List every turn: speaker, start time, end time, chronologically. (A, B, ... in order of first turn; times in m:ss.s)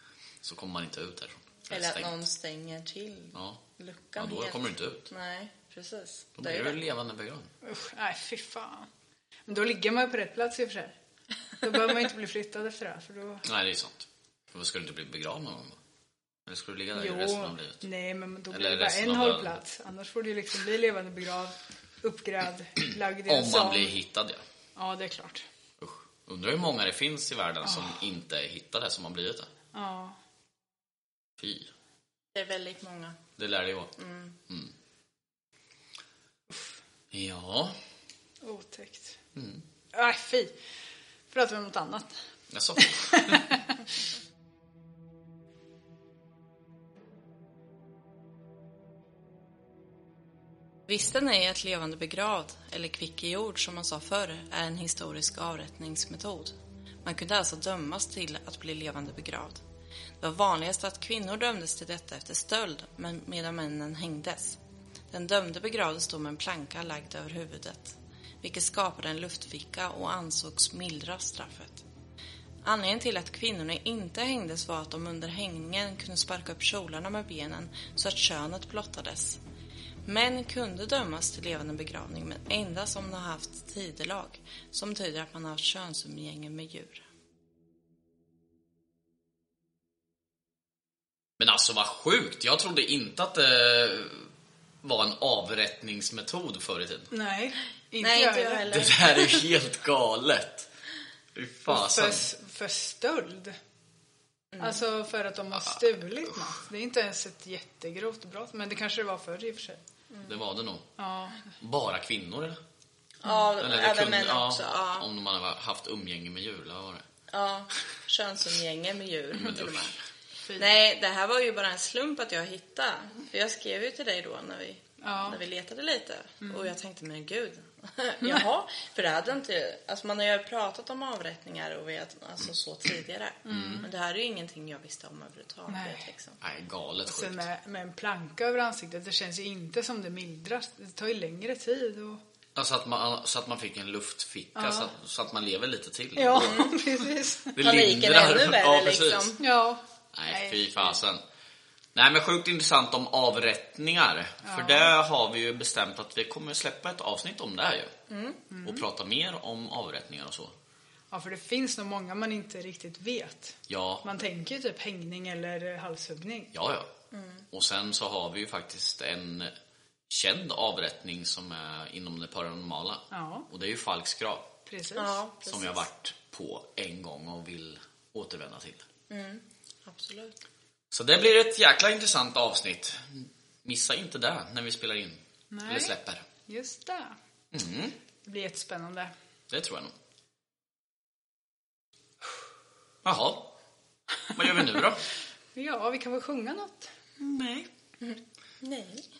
0:00.4-0:02.2 A
0:01.7-0:06.8 B
0:03.4-0:03.6 A
0:04.2-0:05.1 A
0:06.4-0:07.5 A
0:07.6-0:08.9 C
0:09.5-0:11.0 C
0:11.6-0:13.4 C
0:13.4-0:15.8 A
0:16.5-0:17.9 A
0:16.9-0:23.9 C
0:18.5-0:19.6 A
0:23.2-0:24.4 A
0:24.8-0:25.4 C
0:25.8-0:29.5 A
0:27.6-0:28.0 C
0:29.7-0:30.2 C
0:31.4-0:31.7 A
0:32.4-0:33.2 B
0:33.4-0:33.9 A
0:34.0-0:34.4 B
0:37.1-0:37.8 A
0:38.4-0:39.2 C
0:39.4-0:39.6 A
0:39.9-0:40.5 C
0:41.3-0:42.2 C
0:42.5-0:43.6 A
0:42.8-0:43.8 C
0:50.9-0:59.6 B
1:00.2-1:04.6 B
1:05.1-1:11.9 B
1:12.6-1:19.4 B
1:20.1-1:27.0 B
1:31.4-1:34.3 A
1:34.8-1:37.1 A
1:37.1-1:38.7 C
1:38.0-1:39.4 B
1:38.7-1:40.7 A
1:41.4-1:42.3 A
1:41.7-1:43.6 C
1:44.5-1:44.8 B
1:44.6-1:49.8 C
1:45.6-1:46.5 A
1:50.3-1:50.9 A
1:51.0-1:51.5 C
1:51.6-1:52.6 A
1:53.2-1:55.1 B
1:53.6-1:57.0 A
1:57.3-2:00.0 B
1:59.4-1:59.9 A
2:00.5-2:00.7 C
2:00.6-2:16.4 B
2:05.0-2:05.4 C
2:06.4-2:06.7 C
2:13.4-2:13.9 C
2:13.5-2:13.9 A
2:15.7-2:16.1 C
2:16.4-2:17.5 A
2:17.0-2:22.2 C
2:22.6-2:26.9 A
2:24.6-2:24.9 C
2:26.2-2:27.6 C
2:26.4-2:26.7 B
2:27.5-2:29.4 A
2:27.6-2:29.4 B
2:29.4-2:31.0 C
2:30.2-2:31.2 A
2:32.0-2:37.9 A
2:34.4-2:34.9 C
2:38.1-2:38.4 B
2:38.5-2:38.8 C
2:38.6-2:40.5 A
2:41.1-2:46.5 C
2:43.7-2:44.1 A
2:46.5-2:46.9 A
2:47.1-2:47.5 B
2:47.5-2:49.5 A
2:50.1-2:54.5 A
2:53.1-2:53.5 C
2:54.7-2:55.2 C
2:55.0-2:55.8 B
2:55.5-2:58.8 A
2:59.1-3:00.4 B
3:00.9-3:06.2 A
3:05.5-3:06.0 C
3:06.5-3:07.2 C
3:07.5-3:08.0 A
3:08.2-3:09.1 C
3:09.5-3:09.9 A
3:13.0-3:13.5 A
3:14.3-3:15.0 A
3:15.5-3:16.9 C
3:17.3-3:19.1 B